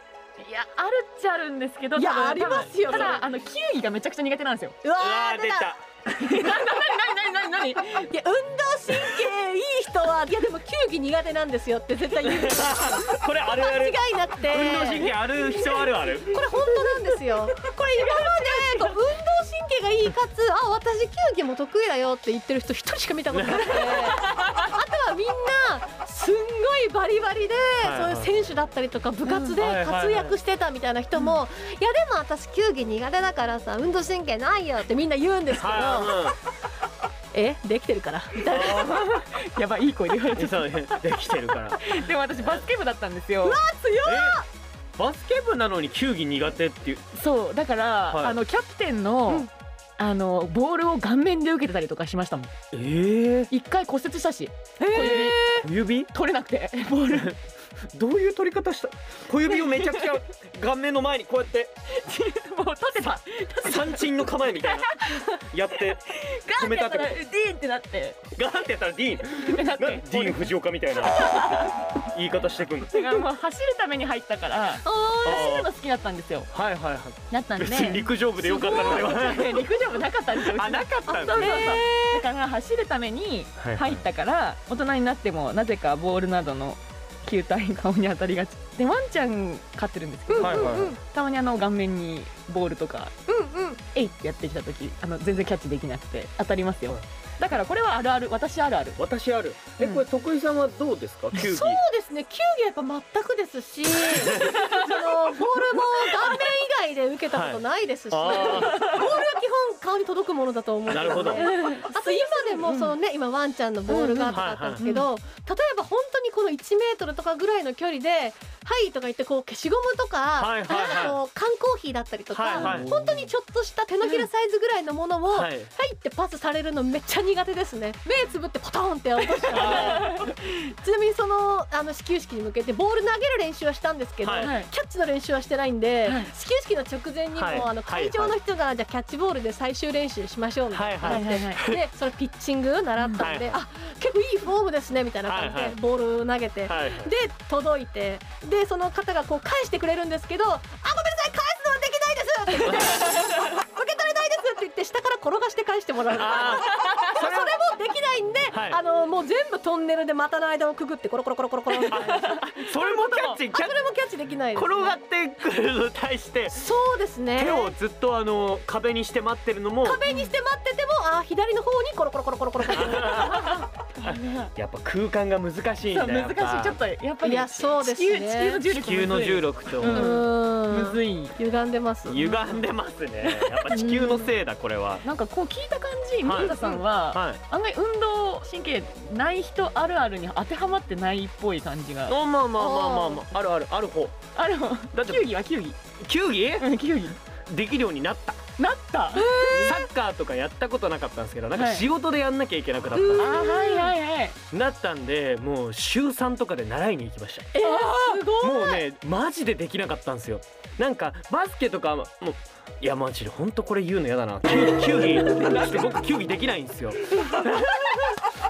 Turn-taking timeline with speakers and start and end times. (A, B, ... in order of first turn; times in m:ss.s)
0:00.4-0:04.8 A
0:01.9-0:03.2 B
0:02.9-0:03.2 C
0:04.8-0:05.7 B
0:05.0-0:05.8 C
0:06.1-0:08.1 A
0:07.9-0:36.4 B
0:12.2-0:16.5 C
0:23.3-0:24.2 C
0:24.4-0:24.7 A
0:27.8-0:28.3 C
0:29.3-0:29.5 A
0:29.6-0:30.4 C
0:35.6-0:36.4 C
0:37.3-0:39.0 B
0:38.5-0:39.3 C
0:39.3-0:41.0 A
0:40.3-0:42.6 C
0:41.8-0:43.6 A
0:43.4-0:44.5 B
0:44.0-0:44.4 C
0:45.0-0:47.0 C
0:47.1-0:52.5 A
0:48.1-0:48.4 C
0:52.7-0:53.5 C
0:53.5-0:57.3 A
0:54.9-0:55.4 B
0:54.9-0:56.1 C
0:56.9-0:57.4 C
0:57.9-1:01.7 C
0:59.5-1:00.1 A
1:01.9-1:04.0 A
1:03.0-1:06.0 C
1:04.6-1:05.3 A
1:06.0-1:08.2 A
1:06.5-1:07.2 C
1:08.3-1:13.2 C
1:09.4-1:10.4 A
1:11.2-1:11.7 A
1:12.9-1:16.5 A
1:15.2-1:15.7 C
1:16.5-1:19.7 C
1:17.3-1:33.1 A
1:20.4-1:21.8 C
1:21.4-1:22.2 B
1:23.6-1:24.0 C
1:30.3-1:31.0 B
1:30.4-1:31.0 C
1:33.3-1:33.8 B
1:33.9-1:39.0 A
1:39.0-1:41.8 C
1:41.3-2:45.0 B
1:44.1-1:44.5 C
1:47.3-1:49.1 C
1:48.3-1:48.6 A
1:50.9-1:51.7 C
1:51.4-1:52.9 A
1:53.9-1:55.1 A
1:54.2-1:54.9 C
2:00.4-2:01.2 C
2:02.3-2:03.0 C
2:05.3-2:05.7 C
2:09.5-2:10.1 C
2:09.8-2:10.2 A
2:14.2-2:14.5 C
2:14.4-2:14.7 A
2:16.0-2:16.3 A
2:17.3-2:18.3 C
2:20.7-2:21.8 C
2:21.0-2:21.6 A
2:23.0-2:23.3 A
2:23.2-2:23.6 C
2:25.2-2:25.8 C
2:26.6-2:27.1 C
2:32.6-2:32.9 C
2:36.1-2:37.5 C
2:38.5-2:38.8 C
2:41.9-2:43.9 C
2:44.5-2:46.7 C
2:46.5-2:47.7 B
2:47.4-2:50.0 C
2:49.8-2:53.6 B
2:52.7-2:56.8 C
2:54.0-2:54.5 A
2:55.9-3:01.4 A
2:57.2-2:58.6 B
2:58.7-3:00.2 C
2:59.8-3:02.3 B
3:02.0-3:05.0 C
3:02.2-3:02.6 A
3:03.2-3:04.1 A
3:03.8-3:04.3 B
3:05.0-3:12.2 A
3:06.2-3:07.4 C
3:06.5-3:06.8 B
3:12.1-3:14.2 C
3:12.6-3:13.2 B
3:14.4-3:15.8 A
3:14.9-3:15.3 C
3:16.0-3:16.7 C
3:16.6-3:17.2 A
3:17.4-3:18.4 C
3:18.6-3:19.7 A
3:19.1-3:19.9 B
3:19.5-3:23.4 C
3:21.5-3:21.8 A
3:22.9-3:23.9 B
3:23.2-3:24.4 A
3:24.5-3:27.5 C
3:27.5-3:28.8 B
3:27.6-3:28.3 A
3:28.4-3:38.3 C